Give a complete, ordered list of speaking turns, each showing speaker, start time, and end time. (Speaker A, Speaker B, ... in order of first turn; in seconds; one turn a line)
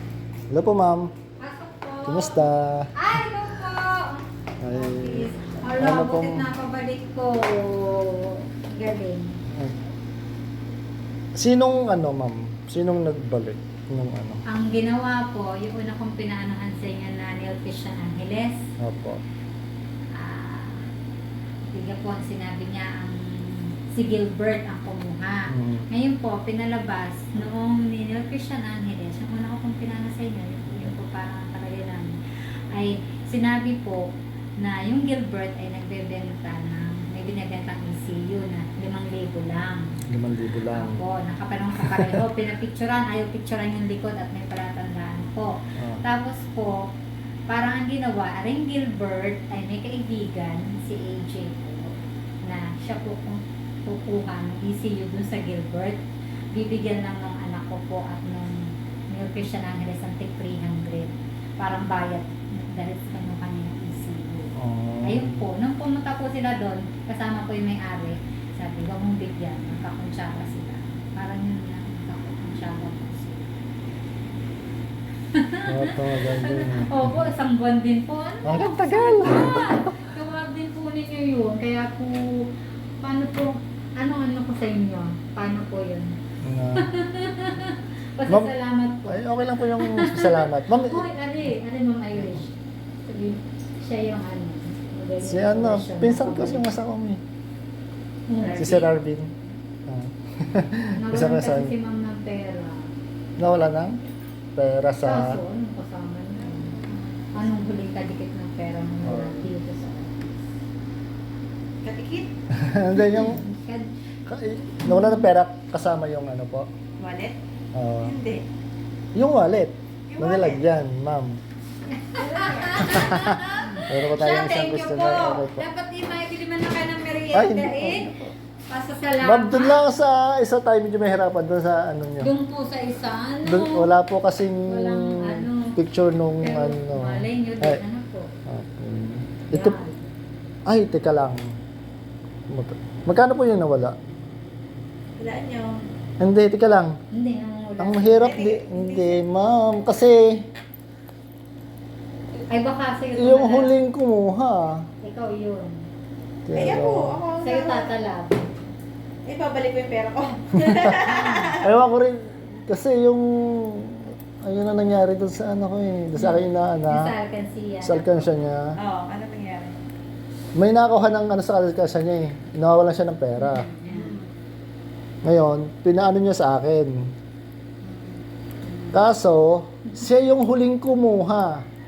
Speaker A: 0.5-1.1
Speaker B: 1.4-9.4
Speaker A: 2.1-3.2
Speaker A: 4.6-6.5
Speaker A: 9.5-9.8
Speaker A: 11.4-14.4
Speaker B: 14.5-18.7
Speaker A: 18.8-19.2
Speaker B: 20.1-20.9
Speaker B: 21.7-32.2
Speaker A: 25.5-25.9
Speaker B: 32.7-40.0
Speaker A: 40.1-41.0
Speaker B: 40.7-46.9
Speaker A: 41.8-42.2
Speaker A: 45.8-46.0
Speaker B: 47.5-56.0
Speaker B: 56.5-73.5
Speaker A: 64.5-65.4
Speaker B: 75.3-82.5
Speaker A: 75.7-77.3
Speaker A: 78.5-79.9
Speaker B: 83.0-86.2
Speaker A: 86.4-86.9
Speaker B: 86.8-89.2
Speaker A: 88.3-88.5
Speaker A: 89.1-91.1
Speaker B: 89.8-96.7
Speaker A: 95.2-97.2
Speaker B: 98.3-98.8
Speaker C: 98.4-98.9
Speaker A: 98.5-99.3
Speaker A: 99.9-101.7
Speaker B: 101.0-102.9
Speaker A: 103.4-104.0
Speaker A: 104.6-105.4
Speaker B: 105.0-106.8
Speaker C: 106.5-107.1
Speaker B: 107.3-110.3
Speaker A: 109.0-109.5
Speaker C: 111.8-112.3
Speaker A: 112.5-113.4
Speaker B: 112.9-113.9
Speaker A: 114.3-116.7
Speaker B: 114.8-115.2
Speaker C: 117.0-117.4
Speaker A: 117.7-118.2
Speaker C: 118.0-118.5
Speaker A: 119.2-121.4
Speaker C: 120.1-120.6
Speaker B: 121.9-128.1
Speaker C: 122.2-123.2
Speaker A: 122.8-125.7
Speaker A: 127.3-128.3
Speaker B: 128.7-129.8
Speaker A: 129.2-132.3
Speaker B: 132.2-133.9
Speaker A: 133.4-137.8
Speaker B: 134.7-135.8
Speaker B: 136.4-138.3
Speaker A: 138.5-139.8
Speaker B: 139.5-140.1
Speaker A: 140.7-141.5
Speaker A: 142.5-144.0
Speaker C: 145.2-145.8
Speaker A: 146.2-147.0
Speaker B: 147.1-148.4
Speaker A: 147.8-150.5
Speaker C: 148.2-149.1
Speaker B: 152.5-153.7
Speaker A: 153.2-154.9
Speaker B: 155.0-155.9
Speaker A: 156.5-157.2
Speaker C: 156.5-157.9
Speaker B: 157.4-158.5
Speaker C: 159.2-161.7
Speaker A: 160.6-167.2
Speaker B: 166.2-168.2
Speaker A: 167.8-168.7
Speaker C: 168.8-169.8
Speaker A: 170.6-173.7
Speaker B: 173.4-174.1
Speaker C: 173.9-174.3
Speaker A: 175.2-177.1
Speaker B: 177.8-179.1
Speaker A: 178.9-181.7